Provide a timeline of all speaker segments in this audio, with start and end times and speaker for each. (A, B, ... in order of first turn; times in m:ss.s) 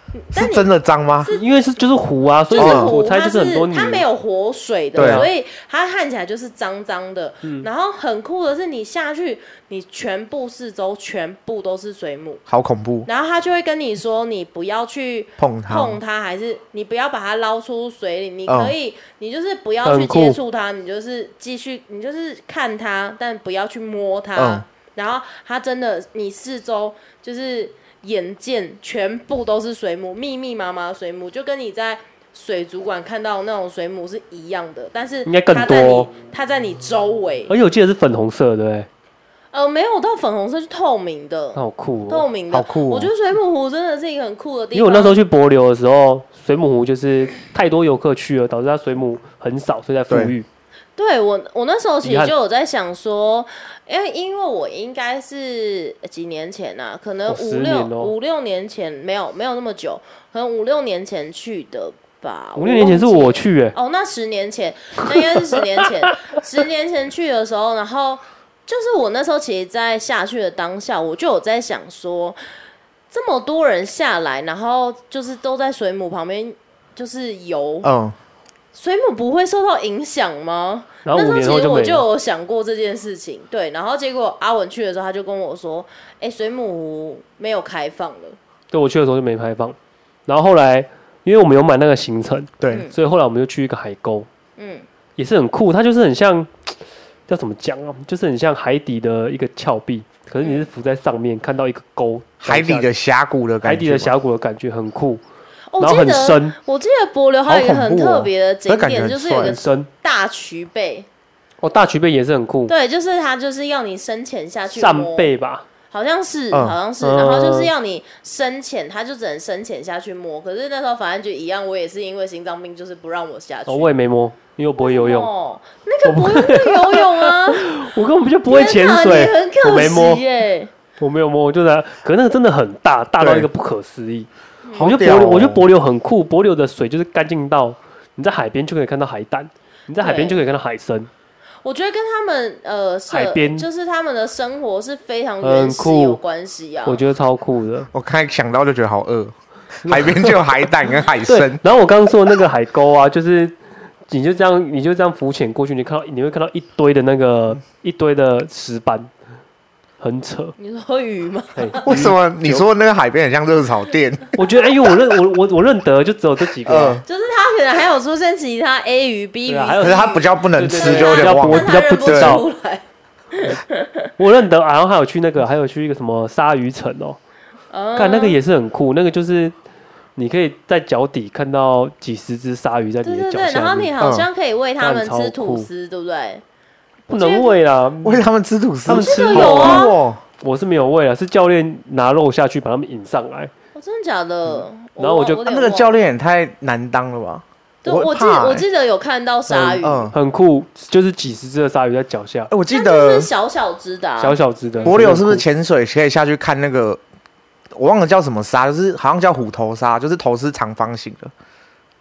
0:00.2-0:00.7 A
0:00.3-0:01.3 B
0:01.3-0:04.0 C
0:02.5-0:12.4 A
0:02.6-0:02.9 B
0:05.0-0:05.3 B
0:05.0-0:05.3 C
0:07.4-0:07.7 C
0:12.5-0:13.1 B
0:13.1-0:37.5 A
0:15.4-0:16.0 B
0:18.5-0:18.7 B
0:19.8-0:20.4 C
0:24.4-0:24.6 B
0:35.3-0:36.1 C
0:37.5-0:38.9 C
0:39.5-0:45.2 A
0:41.6-0:42.3 C
0:42.5-0:43.1 B
0:44.7-0:50.5 C
0:50.1-0:50.3 B
0:51.0-1:12.4 A
0:52.0-0:52.3 C
0:57.3-0:58.1 C
1:02.6-1:03.8 C
1:05.1-1:06.4 C
1:13.1-1:17.9 A
1:17.8-1:18.2 B
1:18.7-1:28.4 A
1:21.0-1:22.0 C
1:28.7-1:34.3 C
1:32.6-1:32.9 B
1:32.7-1:32.9 A
1:34.6-1:34.9 A
1:35.2-1:36.7 C
1:37.3-1:42.9 C
1:42.4-1:44.1 B
1:43.6-1:45.2 C
1:45.7-1:51.1 A
1:45.8-1:46.6 C
1:47.5-1:49.6 B
1:49.4-1:49.9 C
1:51.6-1:52.7 C
1:52.7-1:55.3 A
1:54.7-1:55.7 C
1:55.9-2:03.9 A
1:56.5-1:56.8 B
1:57.0-1:57.7 C
2:03.7-2:05.3 C
2:04.8-2:07.8 A
2:06.0-2:10.2 C
2:08.5-2:10.7 A
2:11.0-2:21.1 C
2:13.2-2:13.5 B
2:14.7-2:15.0 A
2:14.7-2:15.6 B
2:20.0-2:20.4 A
2:21.6-2:27.0 A
2:23.1-2:23.7 C
2:25.4-2:26.2 C
2:26.9-2:27.9 C
2:27.9-2:31.6 B
2:29.8-2:30.5 C
2:31.3-2:33.6 C
2:34.1-2:39.1 C
2:40.0-2:40.6 C
2:40.6-2:42.0 A
2:41.6-2:42.7 C
2:41.8-2:44.4 B
2:44.4-2:47.0 C
2:46.6-2:47.0 B
2:47.0-2:54.1 A
2:49.5-2:52.4 C
2:49.8-2:52.4 B
2:54.2-2:57.2 C
2:57.7-2:58.4 A
2:58.0-2:59.6 C
3:00.2-3:03.9 C
3:03.0-3:06.4 A
3:04.0-3:04.3 B
3:04.8-3:05.7 C
3:07.1-3:08.3 C
3:07.1-3:07.6 A
3:08.0-3:10.2 B
3:08.9-3:09.9 C
3:09.0-3:10.0 A
3:10.4-3:13.5 C
3:13.8-3:16.0 A
3:14.5-3:15.4 C
3:15.5-3:18.6 B
3:17.8-3:20.1 A
3:19.5-3:22.5 C
3:19.8-3:20.2 B
3:22.5-3:23.3 B
3:22.7-3:25.0 A
3:24.2-3:25.4 C
3:24.8-3:27.0 B
3:27.8-3:31.3 B